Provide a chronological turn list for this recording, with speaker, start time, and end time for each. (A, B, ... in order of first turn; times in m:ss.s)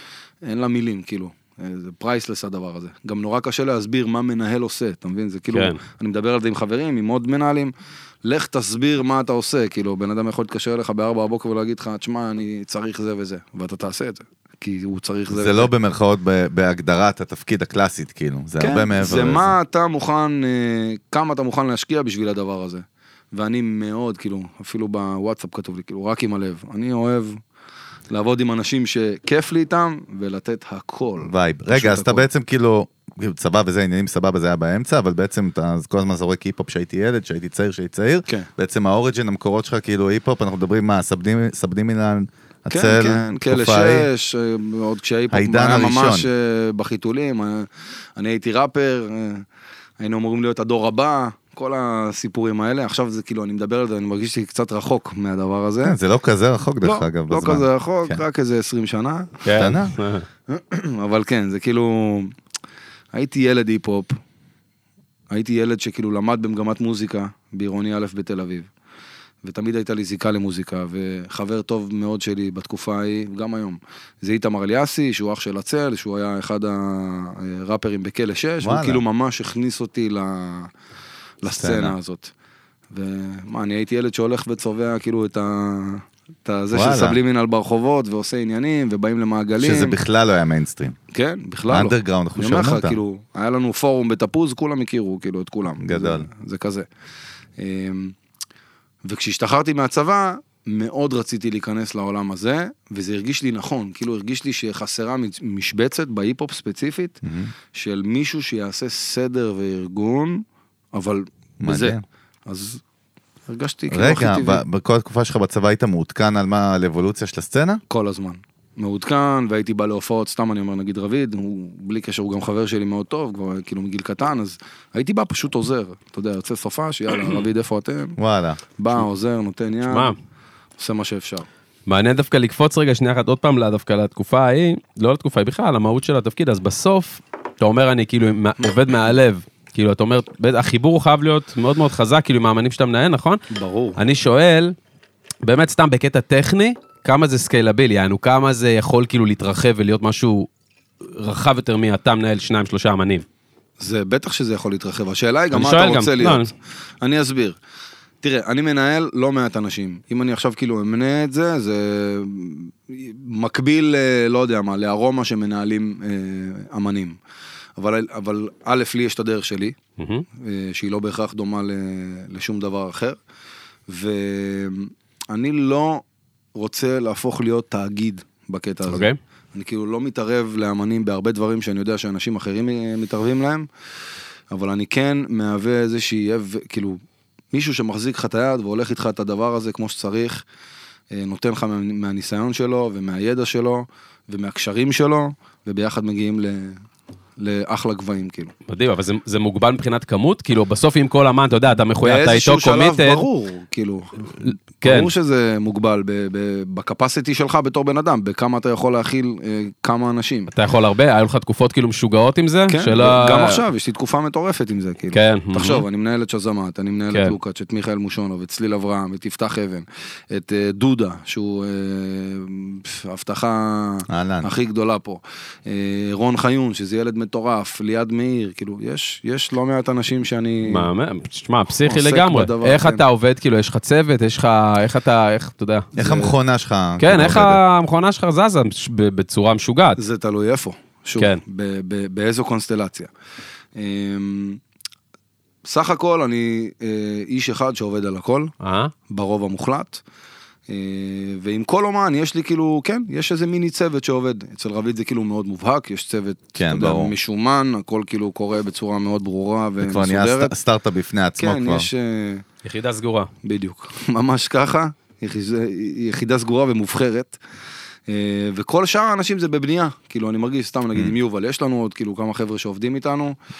0:00.4-0:07.7 A
0:05.5-0:05.8 B
0:08.2-0:15.7 A
0:15.3-0:19.5 C
0:18.6-0:27.4 A
0:28.1-0:32.2 A
0:31.2-0:44.1 C
0:42.7-0:49.4 A
0:45.3-0:46.2 C
0:50.0-0:56.0 A
0:55.8-0:58.2 C
0:56.8-0:59.4 A
0:59.4-1:00.2 B
0:59.5-0:59.9 C
1:00.5-1:02.3 A
1:03.1-1:04.2 A
1:05.3-1:08.7 A
1:09.4-1:20.7 A
1:18.6-1:19.0 C
1:21.4-1:22.3 A
1:21.5-1:21.9 C
1:22.9-1:30.0 A
1:26.7-1:27.2 C
1:29.6-1:31.0 C
1:31.1-1:36.9 A
1:31.7-1:33.0 C
1:35.8-1:36.3 C
1:37.6-1:38.1 A
1:39.0-1:47.2 A
1:47.2-1:47.5 C
1:47.7-1:52.8 A
1:51.6-1:52.0 C
1:53.5-1:54.6 A
1:53.9-1:57.8 C
1:57.9-2:08.2 A
2:08.2-2:08.6 C
2:08.8-2:10.1 A
2:09.9-2:10.1 B
2:10.8-2:11.5 A
2:11.9-2:23.4 B
2:23.5-2:24.0 A
2:24.0-2:24.7 B
2:25.4-2:30.5 B
2:31.0-2:33.2 B
2:33.8-2:36.4 A
2:35.5-2:36.5 B
2:37.0-2:37.6 A
2:38.2-2:47.2 A
2:47.8-2:49.8 A
2:50.0-2:50.2 B
2:50.4-2:53.2 A
2:53.9-2:56.0 A
2:56.5-3:03.7 A
2:58.9-2:59.2 B
3:04.5-3:07.0 A
3:07.5-3:10.4 A
3:11.1-3:16.8 A
3:17.4-3:18.5 A
3:18.7-3:23.2 B
3:22.0-3:30.5 A
3:24.4-3:25.1 B
3:30.5-3:33.6 B
3:32.7-3:50.9 A
3:35.1-3:35.8 B
3:44.1-3:44.5 C
3:50.7-3:55.9 B
3:51.8-3:53.0 A
3:56.0-3:56.3 A
3:56.0-3:57.6 C
3:57.0-4:00.0 B
4:00.0-4:03.1 A
4:03.8-4:04.6 A
4:05.6-4:08.5 A
4:08.6-4:08.9 B
4:09.1-4:10.0 A
4:10.7-4:20.5 A
4:16.5-4:17.1 C
4:19.8-4:21.9 C
4:21.4-4:22.4 A
4:22.6-4:23.3 B
4:23.4-4:27.4 A
4:28.1-4:33.4 A